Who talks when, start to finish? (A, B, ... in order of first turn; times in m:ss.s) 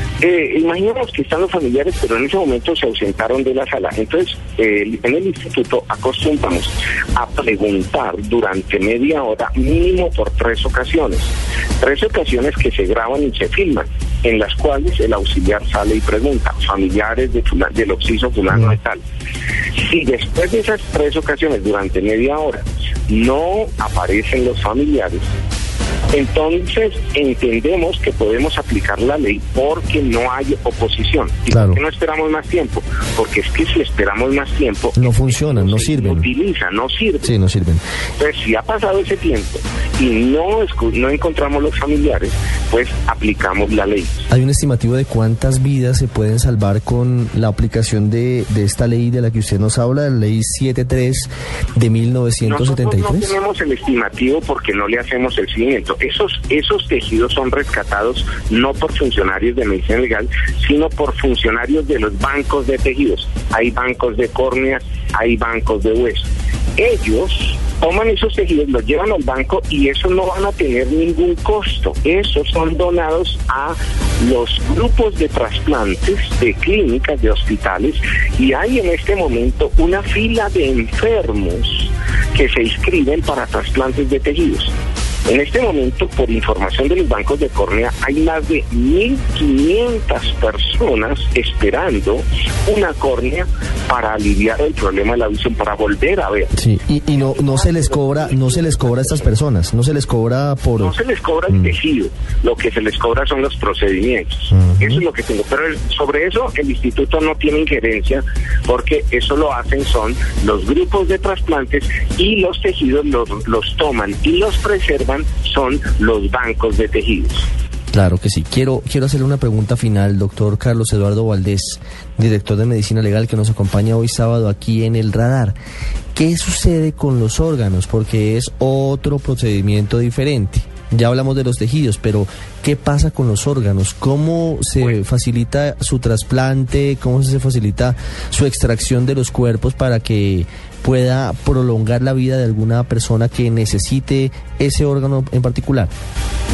0:00.2-0:19.0 A
0:19.8-0:25.3 A
0:26.1-0:37.3 A
0:31.5-0:31.8 B
0:35.0-0:36.2 B
0:37.2-0:37.8 B
0:38.2-0:44.2 A
0:44.3-0:53.3 B
0:52.4-1:24.7 A
1:25.3-1:36.5 A
1:36.5-1:40.9 B
1:37.1-1:39.3 A
1:40.8-1:57.4 A
1:44.5-1:45.0 B
1:57.9-2:05.5 B
2:06.1-2:25.9 B